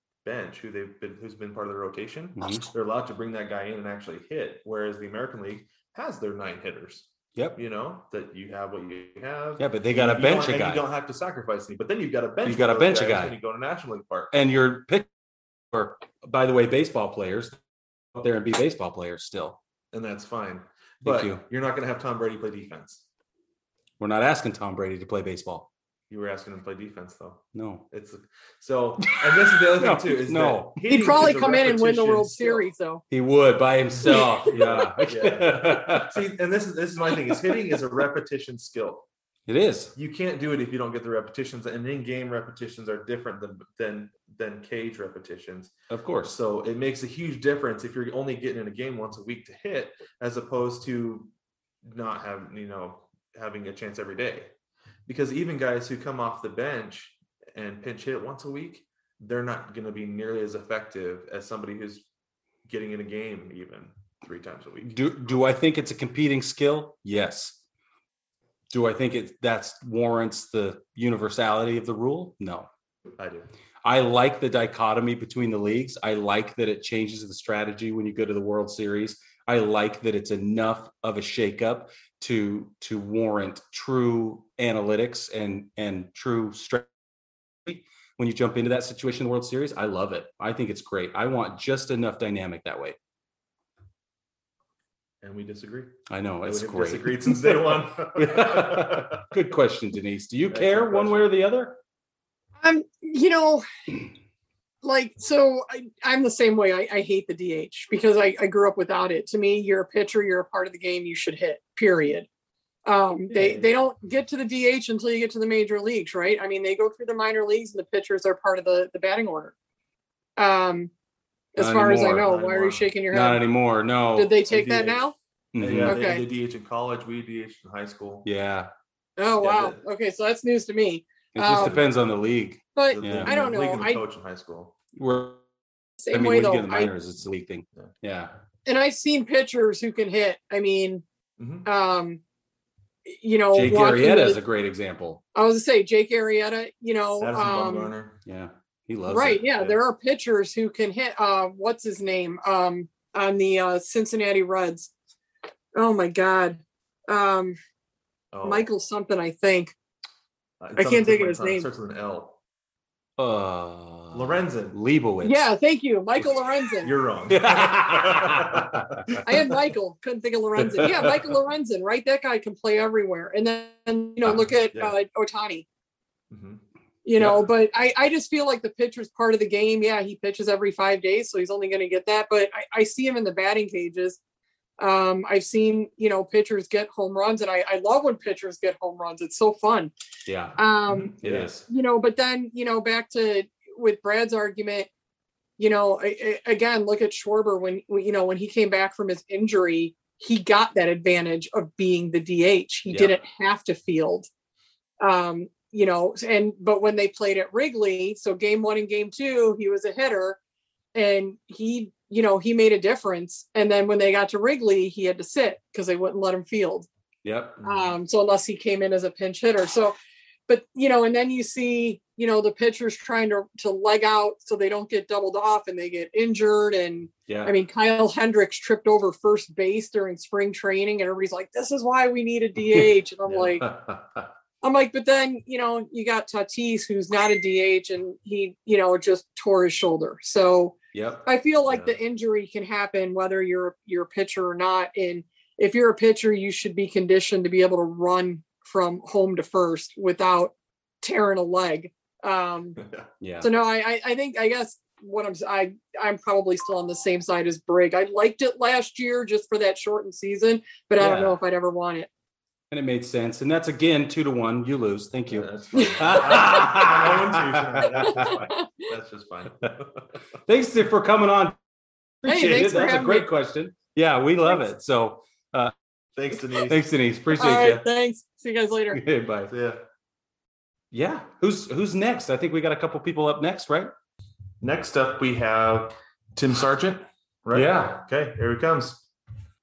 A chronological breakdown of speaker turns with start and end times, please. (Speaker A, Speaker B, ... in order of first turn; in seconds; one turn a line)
Speaker A: 0.2-14.3
Speaker B: 2.4-2.7
Speaker B: 9.6-10.8
Speaker B: 12.4-13.4
Speaker B: 14.3-15.1
Speaker B: 15.7-17.6
Speaker B: 18.1-19.6
Speaker A: 19.9-23.0
Speaker B: 21.0-21.4
Speaker B: 24.0-25.7
Speaker A: 26.1-32.6
Speaker B: 27.6-27.9
Speaker B: 29.1-30.8
Speaker C: 30.9-33.0
Speaker B: 33.1-36.2
Speaker A: 34.0-39.1
Speaker B: 39.5-39.9
Speaker A: 40.0-45.7
Speaker B: 45.9-46.4
Speaker A: 46.2-51.3
Speaker A: 51.9-54.5
Speaker A: 55.1-62.0
Speaker A: 62.7-65.0
Speaker B: 64.8-67.6
Speaker B: 68.7-72.7
Speaker A: 73.2-73.5
Speaker B: 73.8-86.9
Speaker B: 87.7-93.0
Speaker A: 95.2-99.2
Speaker B: 96.1-101.8
Speaker A: 100.5-101.3
Speaker C: 102.6-103.7
Speaker C: 104.8-112.3
Speaker C: 112.9-119.5
Speaker B: 113.3-113.6
Speaker C: 120.4-120.9
Speaker C: 121.5-123.5
Speaker B: 121.6-122.3
Speaker A: 122.2-122.9
Speaker B: 123.1-124.5
Speaker C: 124.2-125.2
Speaker A: 124.5-125.0
Speaker B: 125.5-126.0
Speaker A: 125.6-128.3
Speaker C: 125.8-126.3
Speaker B: 128.2-128.7
Speaker C: 129.2-131.8
Speaker A: 129.4-129.8
Speaker B: 131.3-133.3
Speaker A: 131.5-131.9
Speaker C: 132.8-134.0
Speaker A: 132.9-134.8
Speaker B: 135.0-135.4
Speaker C: 136.0-136.9
Speaker B: 136.1-138.3
Speaker C: 138.7-141.0
Speaker A: 141.4-141.7
Speaker C: 141.7-142.2
Speaker C: 143.1-144.4
Speaker B: 143.5-145.2
Speaker C: 145.3-147.9
Speaker A: 147.2-148.2
Speaker B: 148.3-149.5
Speaker C: 149.1-154.9
Speaker C: 155.8-157.6
Speaker A: 158.3-158.7
Speaker C: 158.4-159.7
Speaker A: 160.6-162.4
Speaker C: 160.8-161.7
Speaker B: 163.2-165.5
Speaker A: 164.1-164.8
Speaker C: 165.2-166.9
Speaker A: 166.8-169.2
Speaker B: 167.3-169.0
Speaker C: 169.2-175.7
Speaker B: 170.6-171.2
Speaker A: 174.2-174.9
Speaker A: 176.3-176.6
Speaker C: 177.1-184.2
Speaker C: 184.8-189.9
Speaker B: 190.3-191.6
Speaker C: 190.6-191.2
Speaker A: 191.0-191.5
Speaker C: 191.7-194.9
Speaker C: 195.6-204.3
Speaker B: 202.9-203.2
Speaker C: 205.0-210.4
Speaker C: 210.9-216.9
Speaker B: 217.2-217.6
Speaker A: 217.6-217.9
Speaker C: 217.6-220.0
Speaker C: 220.5-233.7
Speaker B: 227.3-227.5
Speaker B: 232.7-234.3
Speaker C: 234.6-252.8
Speaker B: 240.9-241.3
Speaker A: 241.7-242.0
Speaker A: 252.8-253.1
Speaker B: 253.2-253.5
Speaker C: 253.4-262.1
Speaker B: 261.0-261.4
Speaker B: 262.7-268.5
Speaker A: 265.3-270.1
Speaker C: 265.8-266.6
Speaker C: 267.9-268.7
Speaker B: 270.5-271.6
Speaker B: 272.2-275.7
Speaker C: 272.3-273.3
Speaker A: 276.2-276.8
Speaker B: 276.5-277.9
Speaker C: 277.4-279.0
Speaker B: 278.9-279.5
Speaker A: 279.5-279.8
Speaker B: 280.9-283.9
Speaker A: 284.6-289.0
Speaker B: 287.5-288.0